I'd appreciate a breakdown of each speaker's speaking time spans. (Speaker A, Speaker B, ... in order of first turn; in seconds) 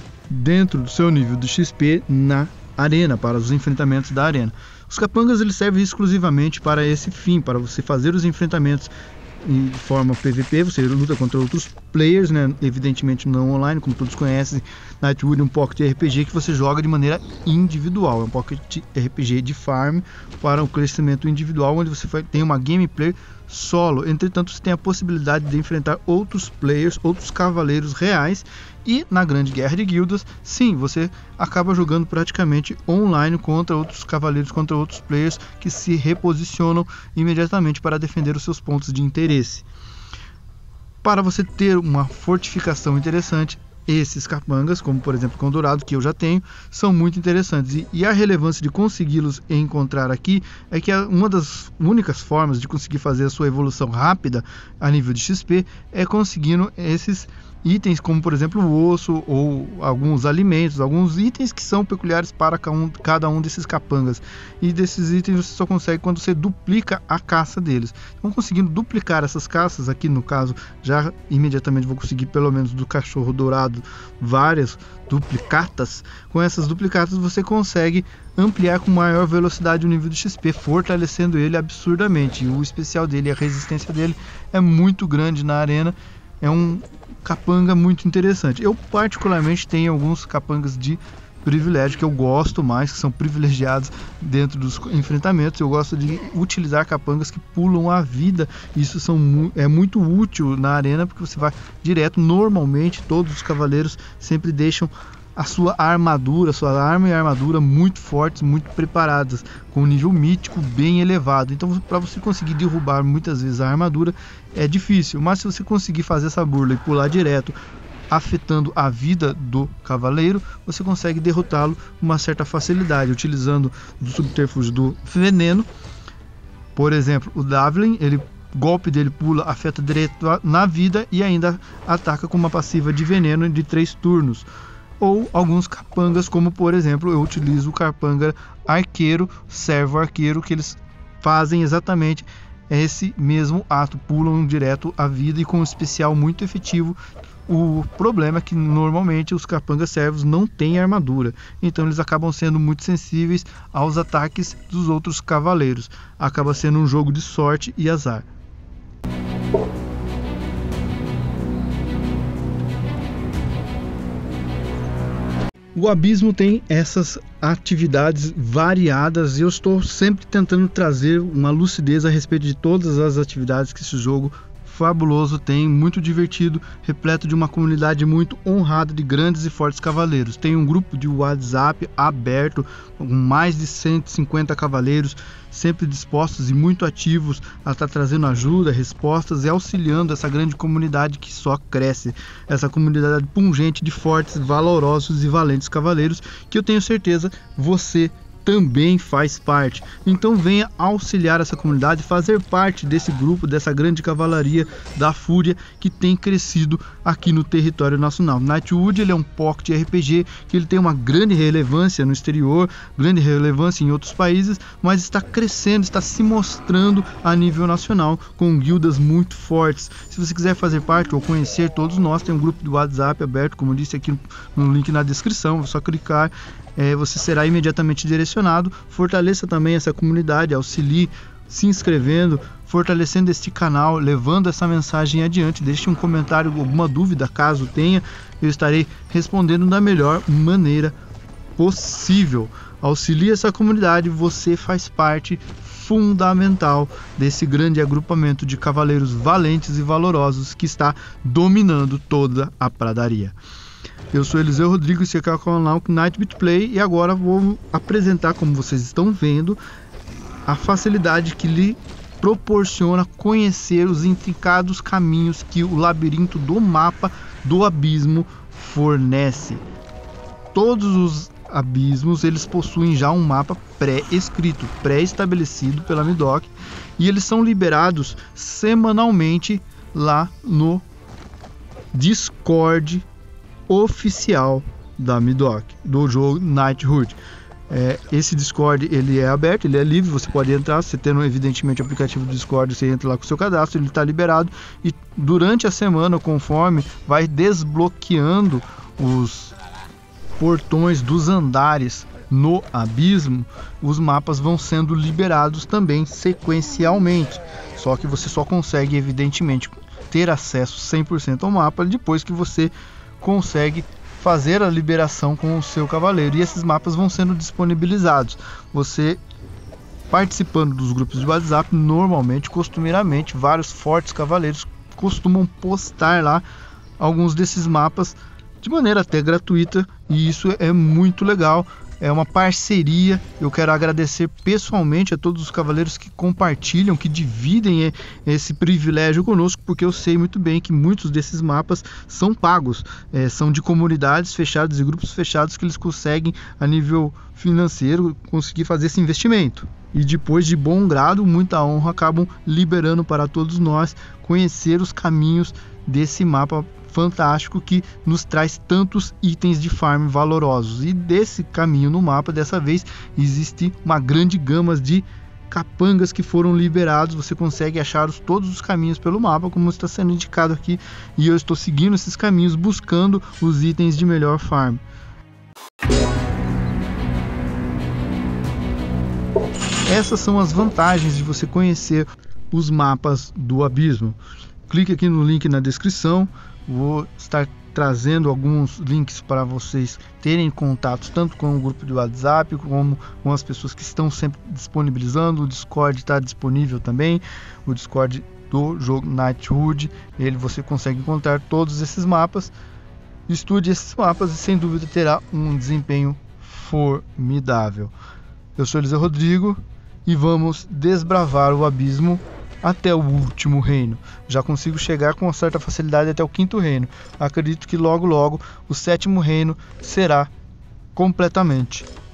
Speaker A: 0.3-39.7, 41.0-117.6, 118.1-125.7, 126.8-134.5, 135.0-158.3, 165.7-240.9, 241.6-253.4, 254.1-259.6, 260.5-269.6, 270.5-280.9, 281.9-283.1, 283.7-287.2, 287.7-299.5, 300.4-319.2, 320.1-326.4, 327.0-374.8, 379.9-384.2, 384.7-402.5, 403.3-407.9, 408.6-420.3, 420.9-421.9